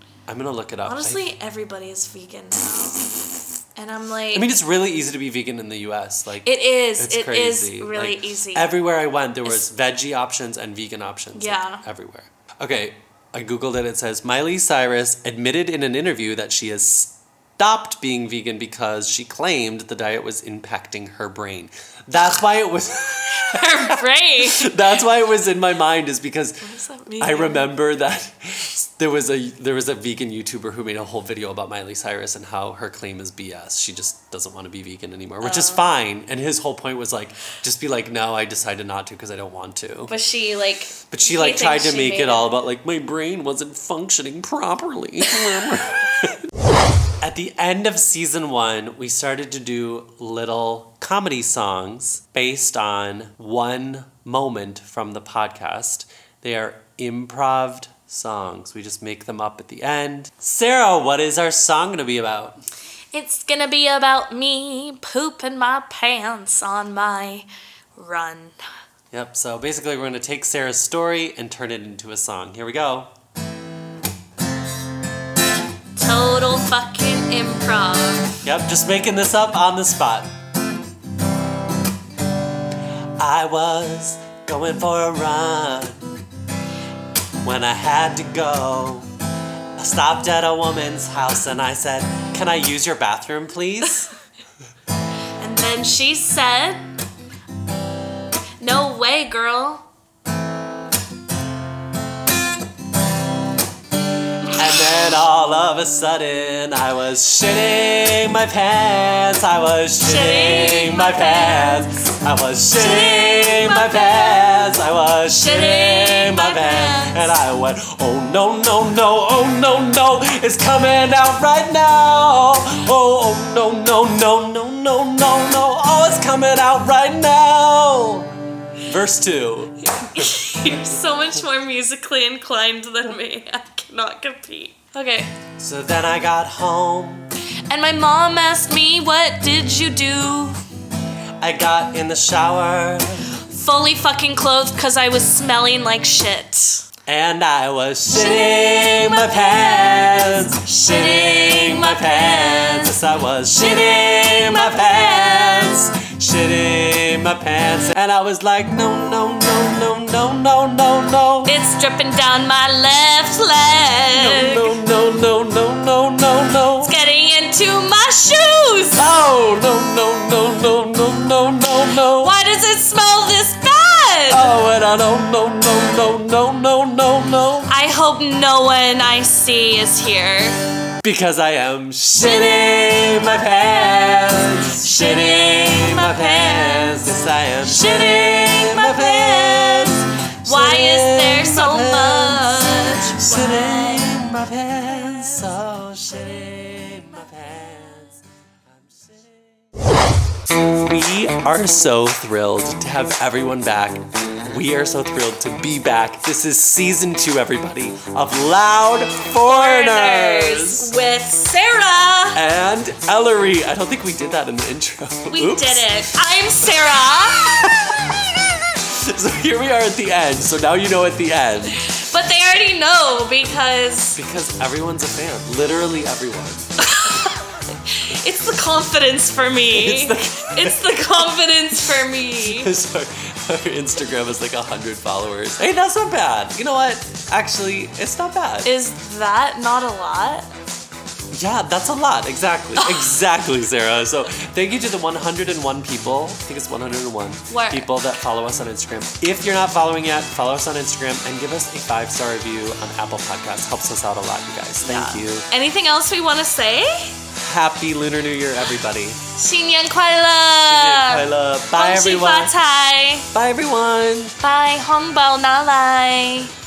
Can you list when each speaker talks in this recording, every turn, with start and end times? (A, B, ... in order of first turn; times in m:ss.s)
0:00.3-0:01.2 A
0:00.8-0:04.5 B
0:04.3-0:26.6 A
0:06.4-0:08.7 B
0:11.3-0:11.8 B
0:23.3-0:24.8 B
0:26.6-0:27.7 B
0:27.2-0:40.1 A
0:35.4-0:35.9 B
0:40.0-0:42.5 B
0:41.1-0:46.4 A
0:47.2-1:02.6 A
1:03.1-1:08.6 B
1:09.1-1:13.1 A
1:16.0-1:18.4 B
1:18.4-1:20.3 A
1:23.2-1:26.0 A
1:27.4-1:29.1 A
1:29.8-1:34.1 A
1:35.4-1:36.9 B
1:38.6-1:39.9 B
1:44.5-2:08.3 A
1:50.0-1:52.0 B
1:52.7-1:57.3 B
2:08.8-2:10.1 A
2:09.8-2:15.4 B
2:15.6-2:17.3 A
2:17.7-2:20.6 B
2:21.4-2:23.4 A
2:23.4-2:26.9 B
2:27.1-2:41.5 A
2:28.1-2:33.0 B
2:33.6-2:35.9 B
2:41.4-2:44.8 B
2:44.1-2:46.9 A
2:46.8-2:49.0 B
2:49.0-2:52.3 A
2:52.2-2:54.5 B
2:54.3-2:57.7 A
2:57.7-3:00.7 B
3:01.0-3:19.7 A
3:04.7-3:14.1 B
3:20.6-3:30.9 A
3:29.4-3:32.4 B
3:32.3-3:35.9 A
3:35.3-3:37.8 B
3:37.1-3:41.9 A
3:41.7-3:44.2 B
3:44.1-3:46.7 A
3:46.8-3:52.7 B
3:49.7-3:51.3 A
3:52.4-3:58.7 A
3:58.6-4:00.5 B
4:01.3-4:15.5 A
4:02.8-4:03.1 B
4:07.5-4:07.9 B
4:14.8-4:17.2 B
4:17.3-4:19.2 A
4:19.3-4:23.3 B
4:20.6-4:22.6 A
4:23.3-4:24.4 A
4:24.4-4:26.5 B